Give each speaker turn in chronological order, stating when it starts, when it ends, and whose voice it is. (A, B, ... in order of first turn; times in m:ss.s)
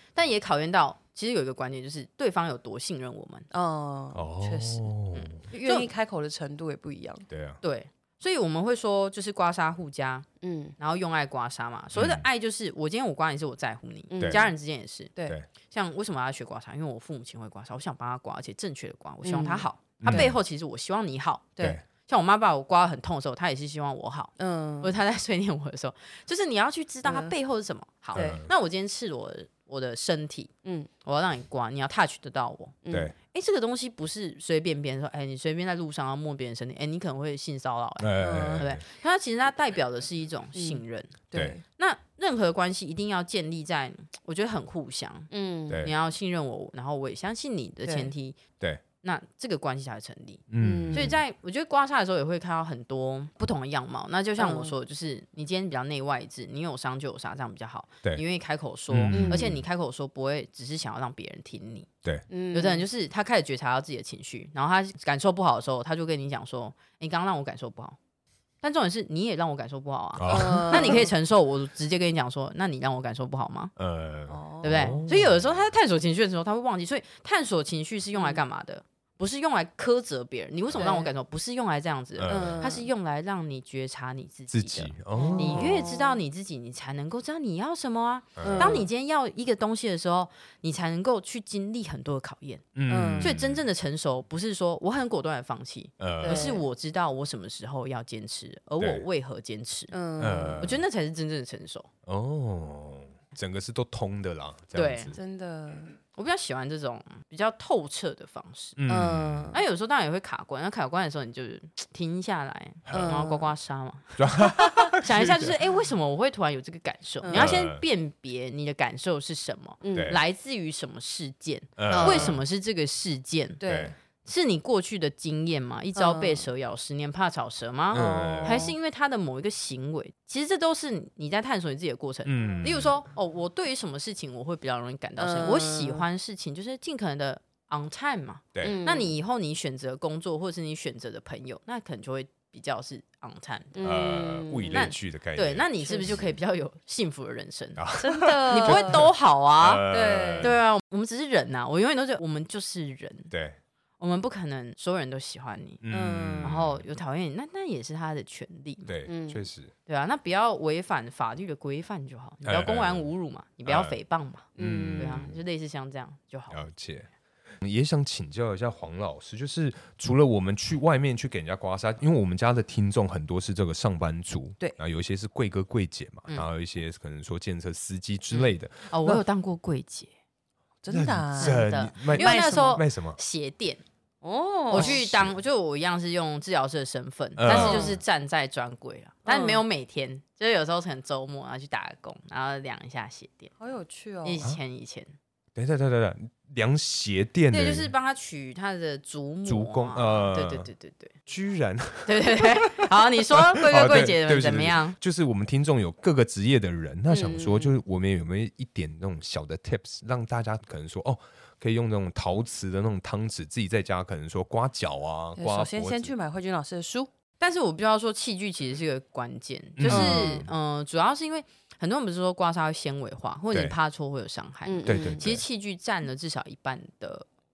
0:00.2-0:03.5 A
0:03.5-0:04.9 B
0:04.1-0:05.4 C
0:05.1-0:05.9 A
0:05.4-0:07.3 B
0:07.3-0:07.6 C
0:07.6-0:10.3 A
0:10.4-0:10.8 B
0:10.8-0:15.1 A
0:12.0-0:12.2 C
0:14.1-0:14.5 B
0:15.7-0:21.5 A
0:19.2-0:20.3 B
0:20.0-0:20.4 C
0:22.1-0:30.5 A
0:24.4-0:24.9 B
0:27.0-0:27.3 B
0:28.2-0:28.4 B
0:28.2-0:28.5 C
0:31.0-0:32.8 A
0:32.8-0:33.1 B
0:33.3-0:48.4 A
0:38.0-0:38.8 C
0:38.2-0:38.7 B
0:40.6-0:41.6 B
0:45.3-0:45.9 B
0:47.8-0:48.1 B
0:49.0-1:01.9 A
0:50.5-0:51.2 C
0:50.6-0:51.2 B
0:54.4-0:54.7 B
0:58.9-0:59.5 C
0:59.1-0:59.6 B
1:02.3-1:02.8 B
1:02.5-1:08.0 A
1:08.6-1:13.7 A
1:10.2-1:11.1 C
1:10.3-1:11.1 B
1:13.8-1:15.6 C
1:14.3-1:15.1 B
1:14.6-1:32.7 A
1:18.2-1:18.4 B
1:20.8-1:21.1 B
1:22.2-1:22.7 C
1:22.3-1:22.9 B
1:24.5-1:25.9 C
1:25.2-1:26.2 B
1:28.4-1:28.8 C
1:28.4-1:28.9 B
1:32.8-1:33.6 C
1:32.9-1:33.3 B
1:33.2-1:39.9 A
1:36.0-1:36.5 C
1:36.2-1:36.7 B
1:38.8-1:39.0 C
1:39.9-1:40.7 B
1:40.2-1:40.8 C
1:40.6-1:41.9 A
1:42.1-1:45.2 C
1:44.7-1:45.2 A
1:45.1-1:45.9 B
1:46.2-1:48.8 A
1:48.8-1:49.6 C
1:48.9-1:49.6 B
1:49.5-2:03.6 A
1:52.9-1:53.2 C
1:52.9-1:53.5 B
1:54.2-1:55.6 C
1:57.2-1:57.6 B
1:57.3-1:57.8 C
1:59.8-2:00.1 B
1:59.9-2:00.2 C
2:01.8-2:02.4 C
2:01.9-2:02.4 B
2:03.6-2:03.9 B
2:03.6-2:03.9 C
2:04.2-2:24.0 A
2:06.0-2:06.5 B
2:07.9-2:08.7 C
2:07.9-2:08.7 B
2:12.3-2:12.9 C
2:15.2-2:16.0 B
2:18.6-2:19.1 B
2:23.8-2:24.9 B
2:23.8-2:25.7 C
2:24.7-2:27.8 A
2:25.8-2:26.2 B
2:27.8-2:30.6 C
2:28.0-2:29.1 B
2:28.5-2:29.8 A
2:29.9-2:30.6 B
2:30.4-2:33.3 A
2:33.3-2:33.6 C
2:34.0-2:35.8 A
2:35.8-2:36.8 C
2:35.9-2:36.6 B
2:36.4-2:38.9 A
2:38.9-2:39.7 C
2:39.1-2:39.4 B
2:39.9-2:46.6 A
2:42.4-2:43.1 C
2:43.7-2:44.0 C
2:44.6-2:45.3 B
2:44.6-2:45.4 C
2:46.5-2:47.1 C
2:47.6-2:59.2 C
2:58.9-3:00.1 A
3:00.8-3:02.8 B
3:00.9-3:03.2 C
3:01.4-3:03.8 A
3:04.2-3:05.0 B
3:04.7-3:13.5 A
3:04.7-3:05.4 C
3:07.4-3:08.0 C
3:07.5-3:08.0 B
3:09.3-3:09.6 B
3:13.6-3:14.4 B
3:14.2-3:15.1 A
3:15.6-3:17.9 C
3:17.5-3:21.1 A
3:19.4-3:20.7 C
3:21.3-3:36.1 C
3:22.1-3:25.0 A
3:27.1-3:27.8 B
3:35.4-3:37.1 B
3:37.4-3:47.3 A
3:39.8-3:40.5 C
3:39.9-3:40.5 B
3:44.7-3:45.3 B
3:44.9-3:45.4 C